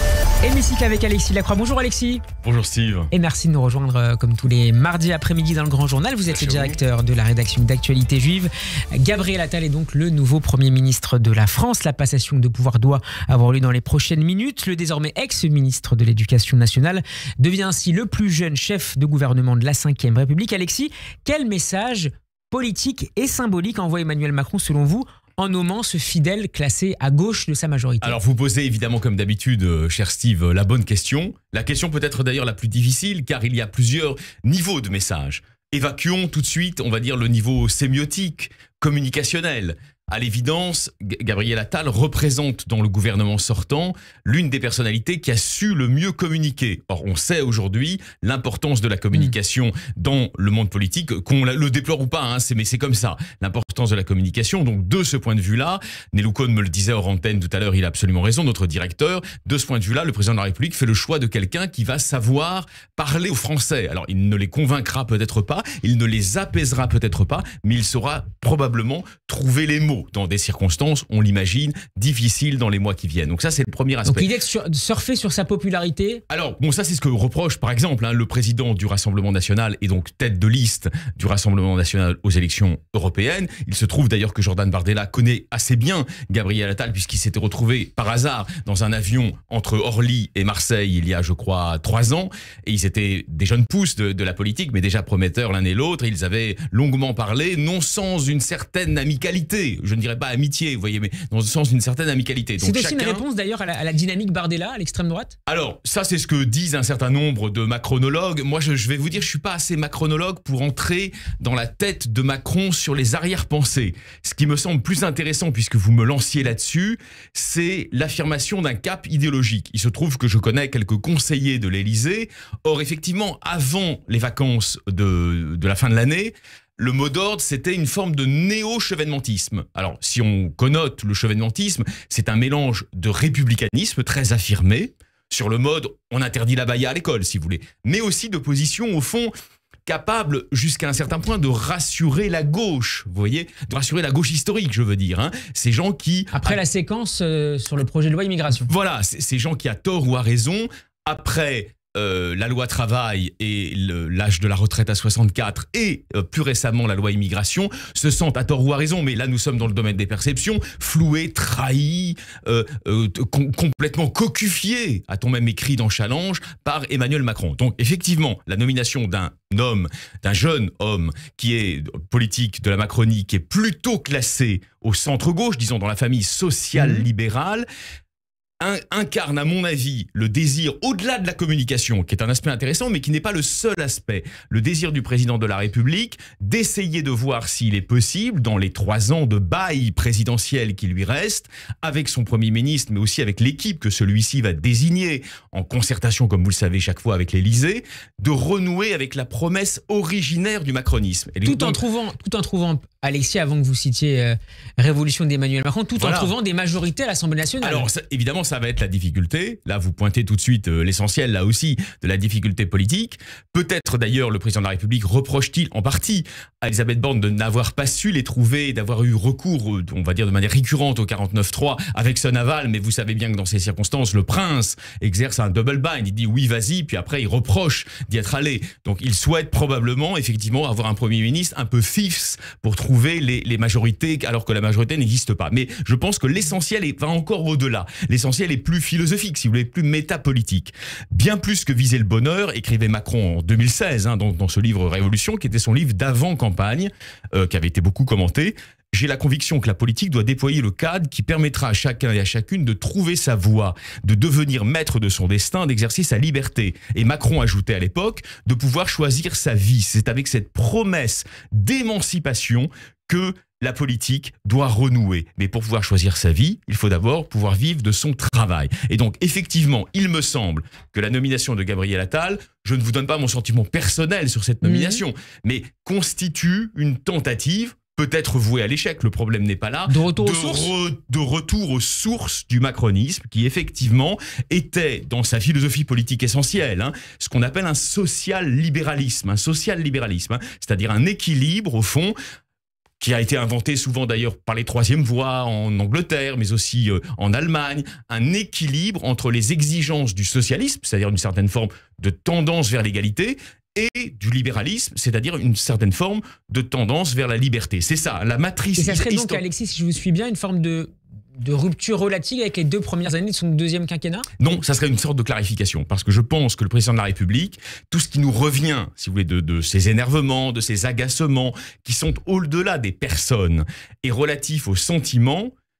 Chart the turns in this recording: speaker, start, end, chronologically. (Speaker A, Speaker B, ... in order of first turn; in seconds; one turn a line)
Speaker A: 0.4-2.2
Speaker B: 2.4-3.1
Speaker A: 3.1-28.2
Speaker B: 6.3-6.8
Speaker B: 28.0-74.3
Speaker A: 74.0-76.2
Speaker B: 76.3-103.2
Speaker A: 102.6-105.3
Speaker B: 105.5-139.3
Speaker B: 139.8-146.6
Speaker A: 146.3-148.7
Speaker B: 148.5-177.7
Speaker A: 176.7-177.1
Speaker B: 178.6-201.8
Speaker A: 201.4-207.9
Speaker B: 206.0-206.3
Speaker B: 207.6-292.1
Speaker A: 274.6-275.0
Speaker A: 279.9-280.7
Speaker B: 293.0-309.4
Speaker A: 308.8-314.3
Speaker B: 314.4-325.5